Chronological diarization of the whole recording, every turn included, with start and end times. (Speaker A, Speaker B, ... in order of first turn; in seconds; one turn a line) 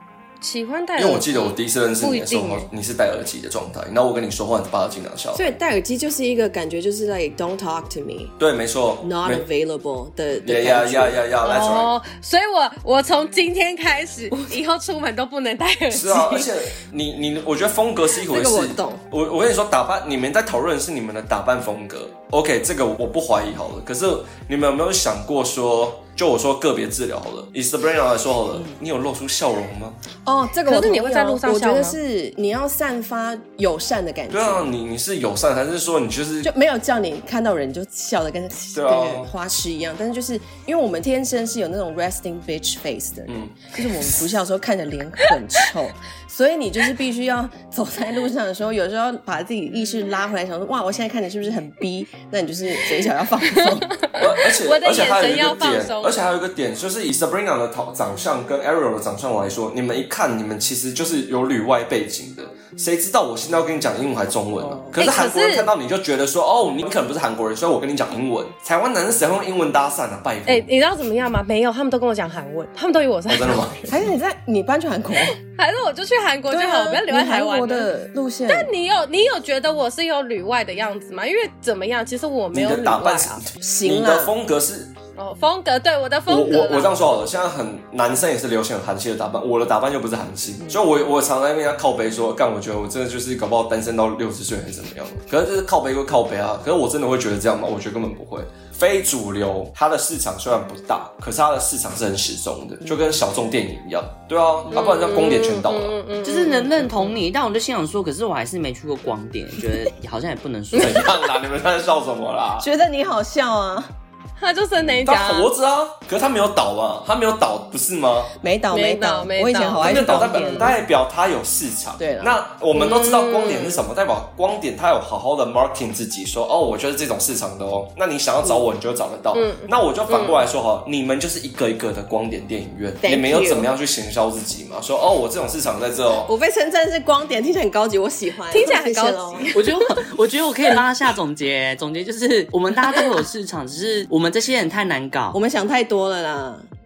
Speaker A: 0.4-2.7
Speaker B: 1.0-5.5
Speaker C: 5.3-8.3
Speaker B: 8.4-9.4
Speaker C: 9.0-11.2
Speaker B: 10.4-11.9
Speaker A: 11.4-16.5
Speaker B: 15.9-30.0
Speaker C: 18.3-19.0
Speaker C: 30.2-34.6
Speaker A: 30.6-32.0
Speaker B: 34.3-36.5
Speaker C: 36.4-53.9
Speaker B: 38.7-39.3
Speaker B: 43.3-43.6
Speaker A: 53.5-56.1
Speaker B: 54.2-70.7
Speaker C: 64.6-65.0
Speaker A: 65.0-65.7
Speaker A: 70.5-73.8
Speaker B: 73.3-74.0
Speaker C: 73.9-75.4
Speaker A: 75.3-77.9
Speaker C: 76.5-78.7
Speaker A: 78.5-83.4
Speaker B: 82.5-84.9
Speaker C: 83.6-84.3
Speaker A: 85.2-87.0
Speaker B: 86.3-105.9
Speaker A: 104.7-107.2
Speaker D: 106.2-111.0
Speaker A: 110.7-111.1
Speaker B: 110.8-112.7
Speaker C: 112.6-113.9
Speaker A: 114.4-115.5
Speaker B: 114.8-118.3
Speaker C: 118.4-120.8
Speaker A: 118.7-120.7
Speaker B: 119.8-136.3
Speaker C: 122.0-122.4
Speaker A: 122.7-123.8
Speaker A: 129.3-130.4
Speaker C: 133.0-133.7
Speaker C: 136.2-139.6
Speaker A: 138.5-139.7
Speaker D: 139.5-145.4
Speaker C: 145.3-146.7